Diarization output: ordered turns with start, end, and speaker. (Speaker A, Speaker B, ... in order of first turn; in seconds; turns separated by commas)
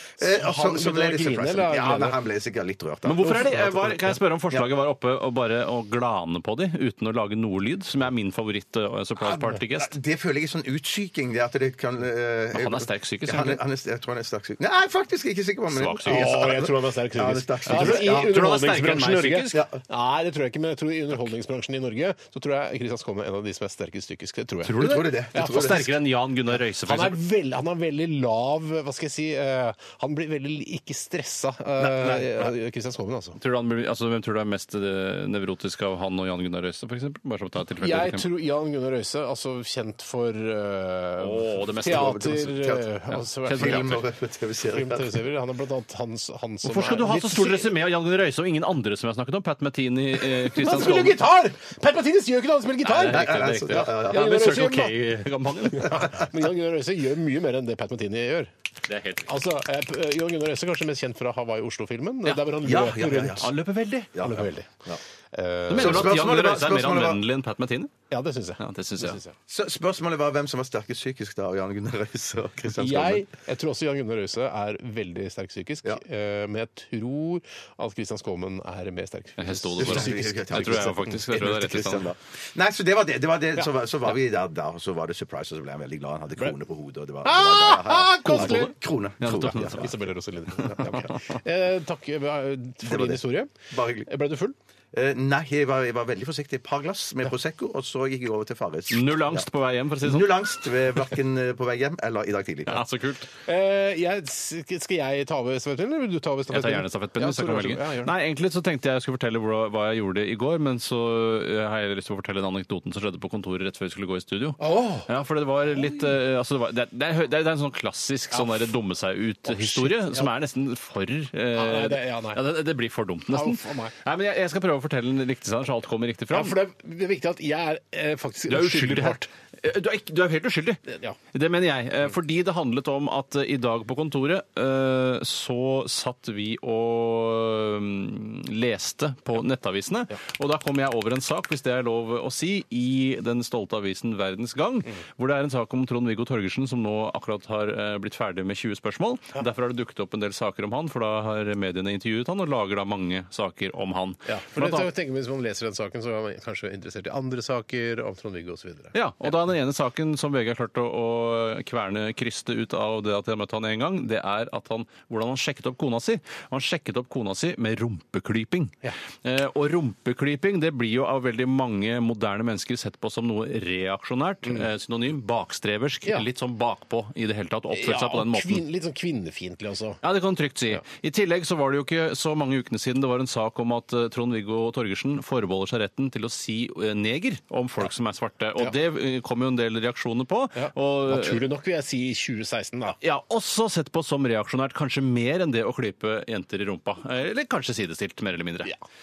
Speaker A: 0.2-3.8, Speaker B: 0.2-2.2, Speaker C: 3.0-9.9, Speaker B: 3.2-4.1, Speaker A: 9.2-18.4, Speaker C: 12.5-13.6, Speaker C: 15.7-16.5, Speaker B: 16.1-24.8, Speaker C: 17.7-19.6, Speaker C: 24.6-27.2, Speaker A: 24.8-25.9, Speaker B: 25.3-25.8, Speaker B: 26.8-33.4, Speaker A: 31.8-32.3, Speaker C: 33.4-38.3, Speaker B: 37.8-44.0, Speaker C: 41.2-42.5, Speaker A: 41.8-42.9, Speaker C: 43.5-44.0, Speaker A: 43.5-45.2, Speaker B: 44.7-47.7, Speaker C: 46.6-51.2, Speaker B: 50.5-55.0, Speaker C: 52.9-56.1, Speaker A: 53.0-54.3, Speaker B: 55.7-58.5, Speaker C: 58.9-59.3, Speaker B: 59.3-63.5, Speaker A: 62.6-63.5, Speaker C: 63.4-64.1, Speaker A: 64.1-65.0, Speaker B: 64.2-64.7, Speaker B: 65.3-66.2, Speaker C: 65.7-67.9, Speaker A: 65.8-67.2, Speaker B: 68.1-69.3, Speaker C: 68.6-69.2, Speaker A: 69.5-73.3, Speaker B: 72.8-81.2, Speaker C: 79.4-82.1, Speaker A: 79.8-89.9, Speaker B: 87.2-88.7, Speaker C: 88.2-89.9, Speaker B: 89.5-93.5, Speaker A: 90.7-91.1, Speaker A: 92.8-94.1, Speaker B: 94.1-94.5, Speaker A: 94.9-99.5, Speaker C: 98.9-100.4, Speaker A: 100.0-102.8, Speaker C: 102.7-103.3, Speaker B: 103.5-108.1, Speaker C: 106.5-126.6, Speaker B: 114.6-115.1, Speaker B: 118.3-118.7, Speaker B: 119.5-120.3, Speaker B: 121.5-122.4, Speaker B: 123.3-123.9, Speaker B: 126.3-129.3, Speaker C: 128.5-130.8, Speaker B: 130.9-131.2, Speaker C: 131.3-154.9, Speaker B: 154.3-158.9, Speaker C: 158.9-178.6, Speaker B: 177.7-180.0, Speaker C: 180.0-191.4, Speaker B: 190.6-193.0, Speaker C: 193.0-198.7